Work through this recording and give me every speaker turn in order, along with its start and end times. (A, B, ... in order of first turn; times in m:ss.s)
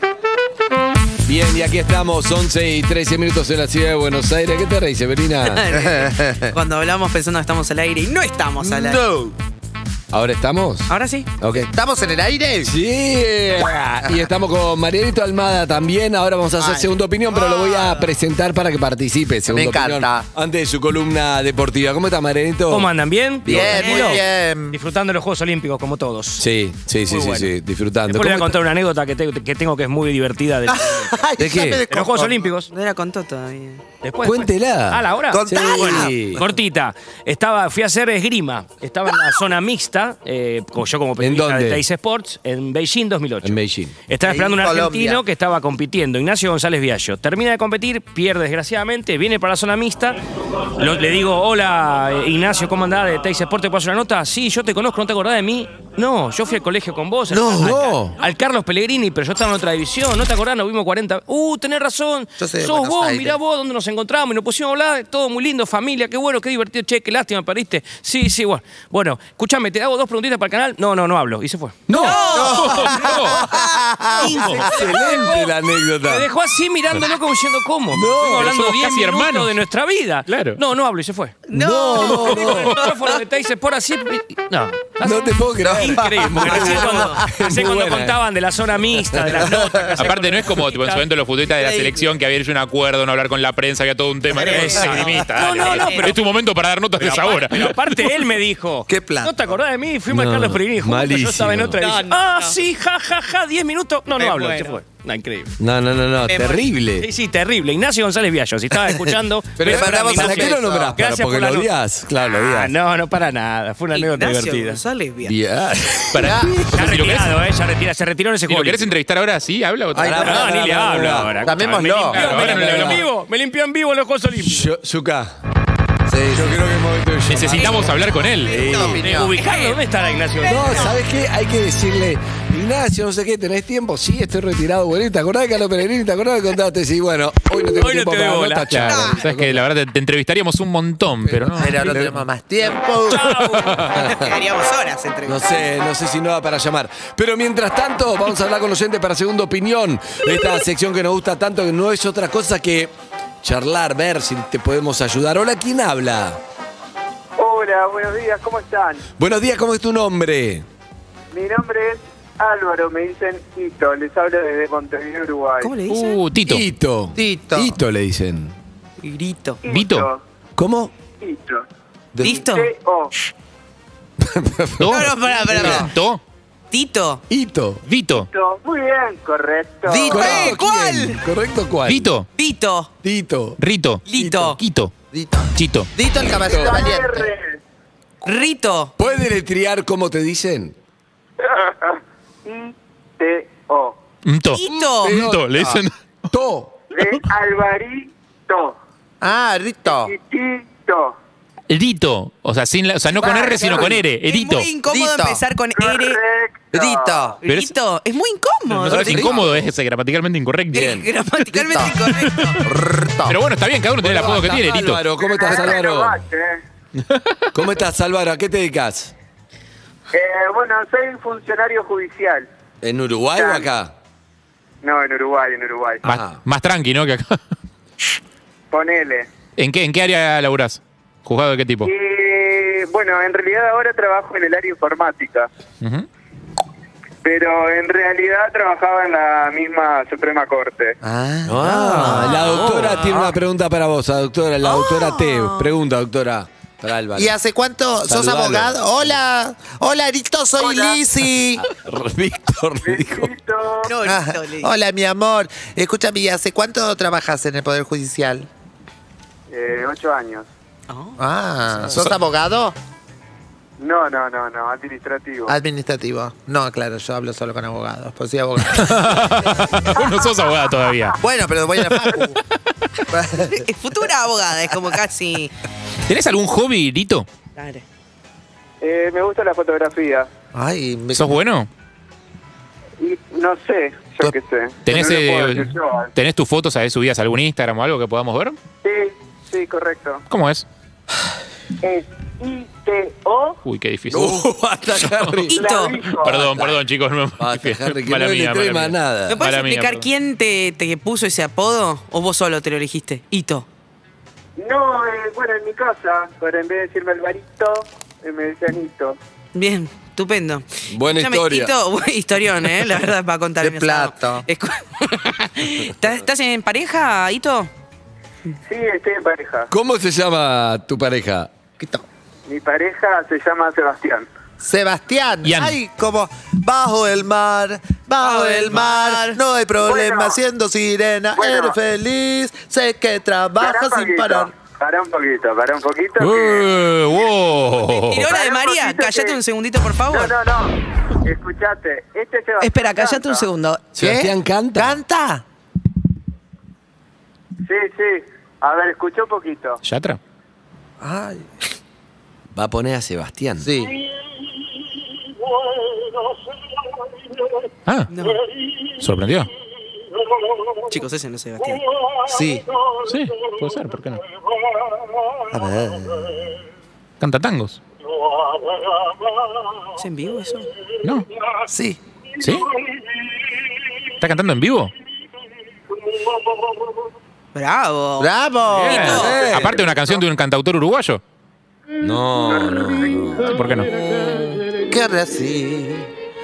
0:01.2-0:05.6 A
0:05.5-0:09.0 B
0:05.7-0:06.5 C
0:08.6-0:09.4 A
0:10.1-0:11.7 A
0:10.9-0:11.3 B
0:11.6-0:12.7 C
0:12.6-0:22.9 A
0:19.5-0:20.3 C
0:22.7-0:26.5 D
0:23.4-0:24.1 A
0:23.4-0:24.8 C
0:26.4-0:28.6 A
0:27.1-0:27.5 D
0:28.1-0:31.1 D
0:30.7-0:32.4 C
0:31.4-0:31.8 A
0:31.9-0:32.7 D
0:32.7-0:33.8 B
0:34.0-0:50.2 D
0:34.2-0:36.4 A
0:35.3-0:36.4 C
0:41.2-0:41.8 A
0:43.4-0:44.0 A
0:44.2-0:45.2 C
0:50.8-1:12.3 D
0:57.3-0:58.2 A
0:57.5-0:57.8 C
1:02.4-1:03.4 C
1:11.9-1:12.5 A
1:12.0-1:13.8 B
1:12.2-1:14.8 C
1:12.4-1:13.5 E
1:14.1-1:31.1 D
1:14.5-1:16.3 A
1:17.9-1:18.5 A
1:18.2-1:19.6 E
1:20.3-1:20.6 E
1:21.5-1:23.2 B
1:21.5-1:22.6 A
1:22.4-1:22.8 E
1:25.0-1:28.2 A
1:25.6-1:27.3 C
1:26.6-1:27.2 B
1:29.3-1:30.0 C
1:30.0-1:38.2 E
1:31.5-1:32.0 B
1:34.3-1:34.8 B
1:34.4-1:36.2 D
1:35.5-1:36.1 B
1:37.0-1:45.6 D
1:38.9-1:39.5 C
1:40.1-1:41.8 A
1:41.8-1:42.6 B
1:44.2-1:44.8 B
1:45.6-1:47.1 A
1:46.3-1:46.6 B
1:47.0-1:51.7 D
1:48.9-1:51.0 C
1:49.6-1:52.7 A
1:49.8-1:50.2 B
1:52.3-1:54.8 D
1:53.9-1:55.4 B
1:55.2-1:56.8 A
1:56.1-1:57.4 E
1:56.2-1:56.6 C
1:56.7-1:58.9 D
1:58.5-2:00.4 E
2:00.0-2:00.5 C
2:00.0-2:01.4 A
2:00.2-2:04.7 D
2:01.4-2:02.5 C
2:02.1-2:03.1 E
2:02.2-2:03.0 A
2:04.4-2:05.4 A
2:06.1-2:06.6 C
2:06.3-2:07.9 A
2:07.3-2:08.7 E
2:07.6-2:09.8 B
2:08.5-2:09.0 A
2:08.5-2:09.4 C
2:08.8-2:11.0 D
2:10.4-2:10.8 B
2:10.5-2:19.6 A
2:17.6-2:18.8 D
2:18.7-2:22.1 E
2:18.9-2:19.2 B
2:21.2-2:22.2 A
2:21.6-2:23.4 C
2:23.0-2:24.0 D
2:23.2-2:24.0 E
2:24.0-2:24.4 A
2:24.0-2:25.7 B
2:25.3-2:36.4 A
2:37.4-2:39.0 F
2:39.2-2:40.7 A
2:41.3-2:45.8 F
2:45.6-2:46.2 B
2:45.9-2:46.6 E
2:46.4-2:48.6 A
2:47.2-2:47.8 C
2:49.0-2:49.6 B
2:49.6-2:50.2 F
2:49.7-2:50.1 E
2:50.6-2:50.9 A
2:51.2-2:51.7 F
2:52.2-2:52.4 C
2:52.2-2:52.7 B
2:52.2-2:53.1 F
2:54.2-2:55.0 A
2:54.8-2:56.2 E
2:54.9-2:55.9 B
2:55.5-2:55.9 A
2:55.5-2:55.9 C
2:56.7-2:57.2 B
2:57.3-2:57.8 A
2:57.8-2:58.3 E
2:58.2-3:00.2 F
2:59.9-3:00.6 C
3:00.1-3:02.1 A
3:00.1-3:01.2 B
3:01.9-3:02.3 E
3:02.4-3:02.9 B
3:03.0-3:03.6 A
3:03.6-3:04.9 E
3:04.1-3:04.6 B
3:04.2-3:04.6 A
3:05.1-3:07.3 C
3:05.6-3:05.9 E
3:06.2-3:06.8 A
3:06.4-3:07.6 F
3:08.2-3:08.9 B
3:09.0-3:10.8 A
3:11.4-3:14.0 F
3:14.2-3:15.9 E
3:14.5-3:15.2 B
3:15.0-3:15.8 A
3:16.3-3:16.8 A
3:16.9-3:18.8 F
3:19.2-3:20.1 C
3:19.9-3:21.2 F
3:21.7-3:24.7 E
3:23.1-3:26.2 B
3:24.9-3:25.4 C
3:25.8-3:27.4 F
3:26.7-3:27.4 C
3:27.4-3:29.3 B
3:27.5-3:27.7 E
3:28.8-3:31.1 E
3:28.8-3:29.6 A
3:30.7-3:32.6 B
3:30.7-3:31.0 A
3:31.5-3:32.0 C
3:32.1-3:32.6 E
3:32.6-3:33.4 C
3:33.2-3:35.0 E
3:34.0-3:36.2 A
3:35.2-3:36.6 F
3:37.0-3:37.5 E
3:37.5-3:39.1 A
3:40.1-3:42.5 F
3:42.8-3:43.9 A
3:43.4-3:43.7 F
3:44.8-3:46.1 F
3:46.0-3:47.4 E
3:46.1-3:46.4 A
3:48.7-3:49.3 F
3:49.6-3:51.9 E
3:51.8-3:55.5 F
3:55.8-3:56.1 E
3:57.2-4:01.0 F
4:01.0-4:03.3 C
4:01.5-4:07.3 A
4:02.0-4:03.2 B
4:04.6-4:05.8 B
4:07.2-4:11.6 C
4:08.1-4:09.2 A
4:10.6-4:11.0 F
4:11.6-4:13.3 A
4:12.8-4:14.0 F
4:13.8-4:14.7 B
4:14.0-4:18.5 C
4:19.5-4:20.5 F
4:20.9-4:21.2 B
4:21.2-4:22.8 C
4:23.8-4:25.6 F
4:25.5-4:29.8 C
4:28.7-4:31.2 E
4:29.9-4:30.4 B
4:31.2-4:32.4 C
4:31.8-4:32.4 E
4:33.1-4:33.6 C
4:33.5-4:35.5 B
4:36.1-4:37.3 E
4:37.6-4:37.8 B
4:38.8-4:40.3 F
4:40.5-4:41.4 C
4:41.1-4:41.7 E
4:43.0-4:46.1 F
4:44.9-4:48.6 E
4:48.8-4:50.2 F
4:50.3-4:50.7 E
4:51.8-4:53.6 F
4:53.6-4:54.4 E
4:54.1-4:55.7 A
4:55.0-4:55.4 E
4:55.5-4:56.0 B
4:55.5-4:56.6 F
4:56.2-5:00.1 E
4:57.4-4:59.4 A
4:59.3-5:03.7 B
5:04.6-5:09.2 F
5:09.5-5:17.7 B
5:10.9-5:11.7 A
5:13.6-5:14.5 C
5:18.7-5:19.7 F
5:19.7-5:21.5 A
5:21.8-5:22.1 C
5:22.5-5:24.3 F
5:24.6-5:34.5 C
5:25.4-5:25.8 E
5:28.2-5:29.4 B
5:29.8-5:30.4 F
5:31.4-5:31.8 F
5:33.6-5:36.7 F
5:36.2-5:38.3 E
5:38.0-5:40.4 B
5:38.1-5:39.4 F
5:40.1-5:43.5 F
5:42.6-5:43.9 B
5:44.0-5:45.0 A
5:44.0-5:45.4 C
5:47.6-5:49.8 F
5:49.8-5:50.2 E
5:51.0-5:51.5 C
5:52.5-5:53.7 A
5:53.6-5:54.0 C
5:58.1-5:58.4 B
5:59.0-5:59.5 E
6:00.9-6:01.8 B
6:02.3-6:02.6 C
6:03.1-6:04.2 E
6:05.5-6:06.4 C
6:07.2-6:07.8 E
6:10.0-6:10.7 B
6:11.7-6:12.0 C
6:12.4-6:12.7 E
6:14.2-6:14.9 E
6:17.6-6:19.4 B
6:18.2-6:19.5 C
6:18.8-6:21.2 E
6:19.0-6:19.9 A
6:22.0-6:23.5 A
6:23.4-6:23.9 E
6:24.9-6:26.1 C